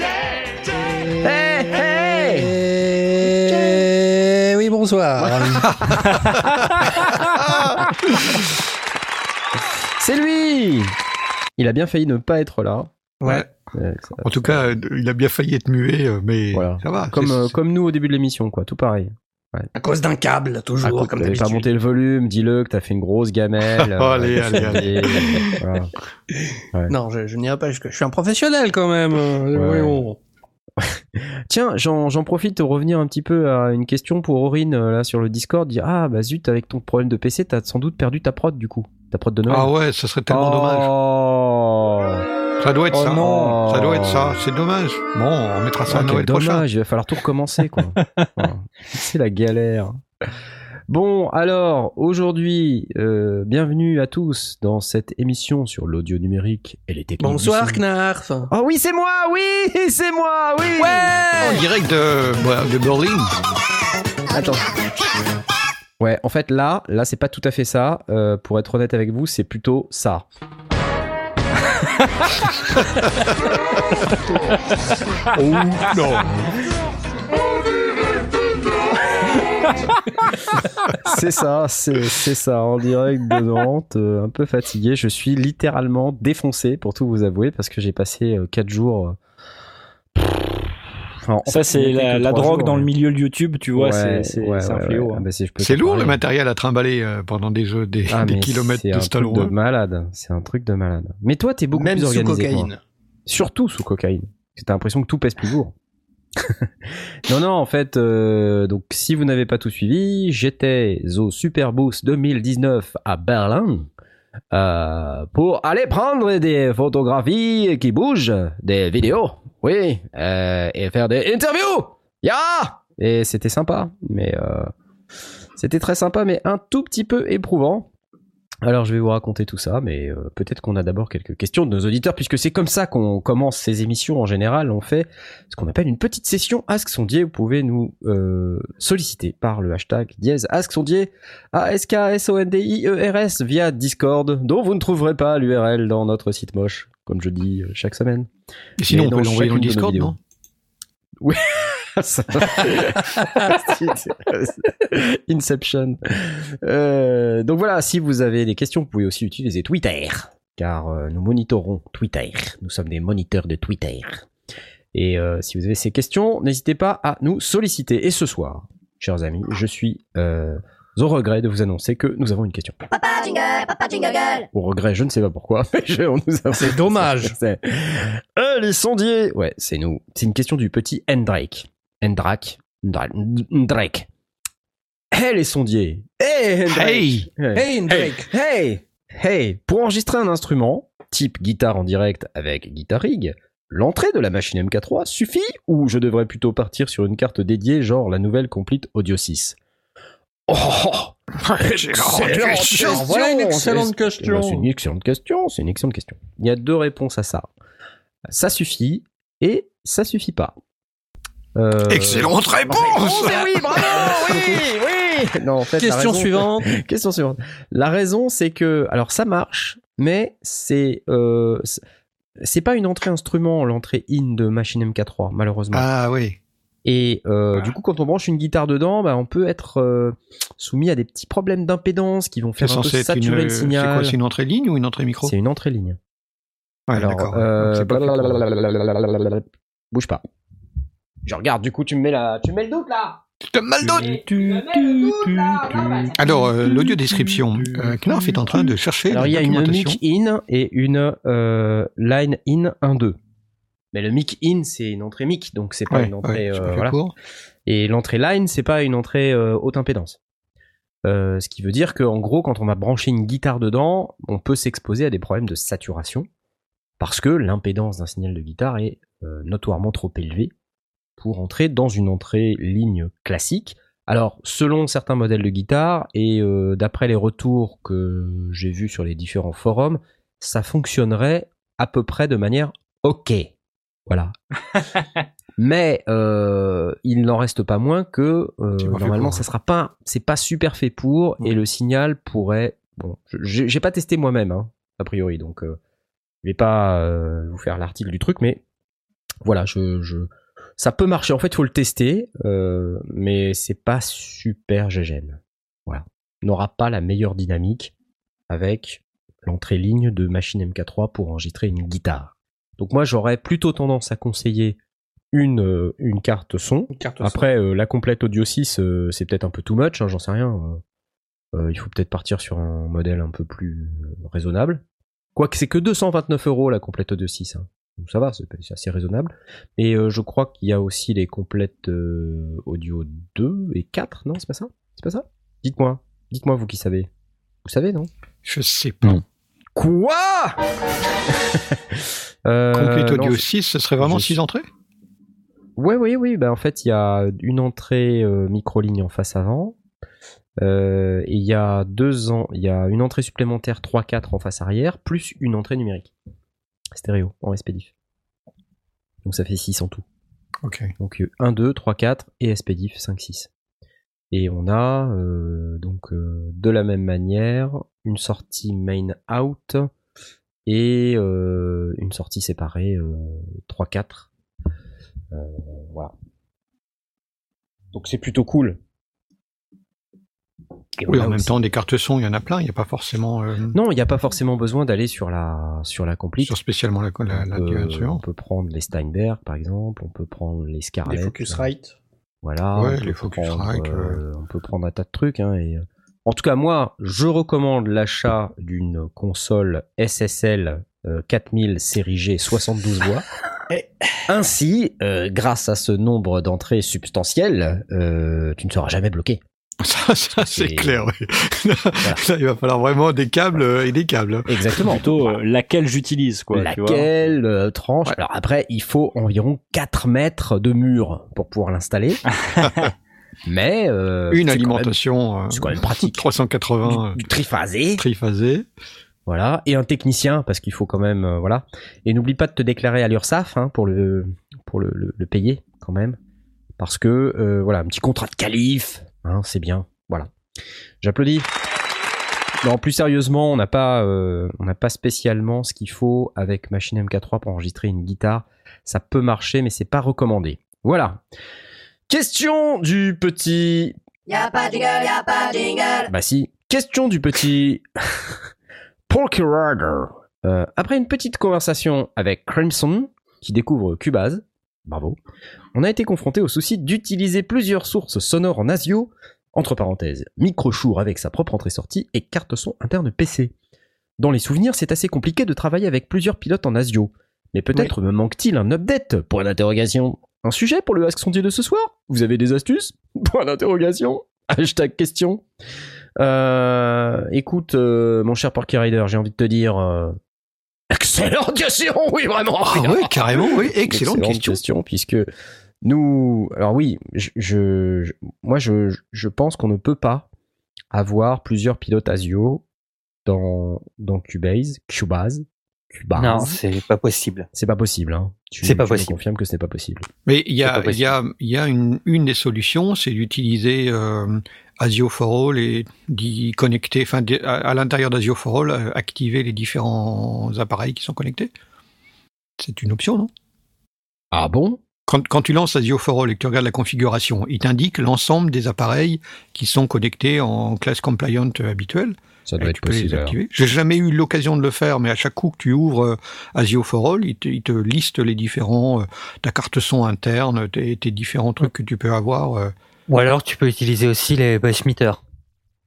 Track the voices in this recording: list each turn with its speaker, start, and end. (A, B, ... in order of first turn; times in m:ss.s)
0:00.6-0:06.0 A
0:01.2-0:02.5 B
0:03.5-0:03.8 B
0:05.2-0:08.5 B
0:07.4-0:08.2 C
0:10.0-0:10.9 B
0:11.6-0:12.9 B
0:13.2-0:13.5 A
0:13.7-0:14.7 B
0:14.2-0:17.6 C
0:16.5-0:19.7 B
0:19.8-0:21.7 A
0:20.8-0:25.9 B
0:23.8-0:25.3 C
0:24.5-0:25.6 A
0:26.9-0:30.2 A
0:29.5-0:30.0 B
0:30.8-0:39.7 B
0:39.5-0:40.9 C
0:40.3-0:42.2 B
0:42.6-0:46.6 C
0:42.9-0:43.6 D
0:43.2-0:44.4 B
0:45.9-0:50.0 B
0:50.9-0:57.8 B
0:57.2-0:58.5 A
0:58.5-1:01.6 B
1:00.8-1:03.3 C
1:04.3-1:04.7 B
1:06.0-1:10.2 B
1:15.2-1:16.5 C
1:21.0-1:29.2 B
1:31.2-1:32.9 B
1:31.5-1:35.2 D
1:33.7-1:36.2 B
1:35.6-1:39.5 C
1:38.1-1:42.7 B
1:41.7-1:42.8 A
1:43.3-1:45.7 B
1:46.4-1:53.9 B
1:54.5-2:04.7 B
2:05.6-2:07.9 B
2:08.6-2:28.3 B
2:28.8-2:30.2 C
2:28.9-2:30.1 B
2:31.2-2:44.2 B
2:44.9-2:52.8 B
2:52.9-2:54.5 E
2:54.5-3:04.1 B
2:56.5-2:57.3 A
3:05.1-3:19.6 B
3:06.7-3:07.3 C
3:07.5-3:08.3 A
3:20.5-3:27.5 B
3:21.4-3:23.1 C
3:22.7-3:24.6 A
3:28.3-3:30.6 B
3:31.6-3:41.8 B
3:31.9-3:34.6 C
3:35.8-3:36.2 C
3:42.4-3:45.9 B
3:45.7-3:46.4 C
3:46.8-3:54.2 B
3:52.6-3:55.3 C
3:55.2-3:56.0 B
3:56.9-3:58.4 C
3:56.9-4:00.2 B
4:01.2-4:03.2 B
4:03.5-4:04.2 C
4:03.8-4:13.2 B
4:05.4-4:05.7 D
4:06.2-4:10.0 C
4:13.9-4:17.0 B
4:15.9-4:17.1 C
4:17.6-4:20.2 B
4:21.0-4:26.3 B
4:27.0-4:30.5 B
4:31.2-4:43.5 B
4:44.1-4:44.3 B
4:45.6-4:55.8 B
4:48.8-4:49.4 C
4:56.4-4:58.6 B
4:59.4-5:07.9 B
5:08.5-5:14.8 B
5:15.3-5:20.8 B
5:16.9-5:17.5 A
5:21.5-5:24.8 B
5:25.3-5:37.1 B
5:37.6-5:38.1 B
5:38.4-5:39.2 C
5:39.7-5:40.6 B
5:41.2-5:43.4 B
5:42.7-5:44.6 C
5:44.0-5:44.4 B
5:45.8-5:49.8 B
5:50.6-5:56.1 B
5:56.9-5:57.9 B
5:59.2-6:00.0 B
6:00.6-6:00.9 C
6:01.0-6:03.5 B
6:04.3-6:09.9 B
6:10.6-6:14.3 B
6:15.3-6:16.1 B
6:17.9-6:18.8 B
6:21.0-6:21.5 B
6:21.1-6:23.8 C
6:23.7-6:26.5 B
6:26.4-6:28.2 C
6:27.3-6:31.7 B
6:31.1-6:31.9 A
6:32.4-6:43.2 B
6:32.7-6:34.2 C
6:44.2-6:49.4 B
6:49.8-6:54.8 C
6:50.4-6:51.1 B
6:54.4-6:55.4 B
6:54.8-6:57.1 D
6:56.5-7:02.2 B
7:02.6-7:02.9 C
7:03.4-7:04.9 B
7:04.3-7:07.2 C
7:05.5-7:06.3 B
7:06.8-7:08.0 B
7:08.0-7:08.6 C
7:09.2-7:16.2 B
7:16.8-7:20.3 B
7:21.0-7:21.5 B
7:22.6-7:31.2 B
7:32.1-7:34.0 B
7:34.3-7:36.1 E
7:36.1-7:38.5 B
7:39.1-7:45.2 B
7:45.7-7:53.5 B
7:54.2-8:05.4 B
8:06.2-8:10.2 B
8:10.9-8:15.3 B
8:12.6-8:14.6 C
8:15.8-8:20.3 B
8:20.9-8:22.6 B
8:23.2-8:26.6 B
8:26.1-8:27.5 F
8:27.5-8:30.1 B
8:28.6-8:29.1 F
8:30.3-8:41.5 C
8:30.6-8:31.2 F
8:42.6-8:43.3 C
8:44.3-8:44.8 B
8:45.1-9:02.7 C
8:52.5-8:53.4 B
9:03.1-9:05.2 F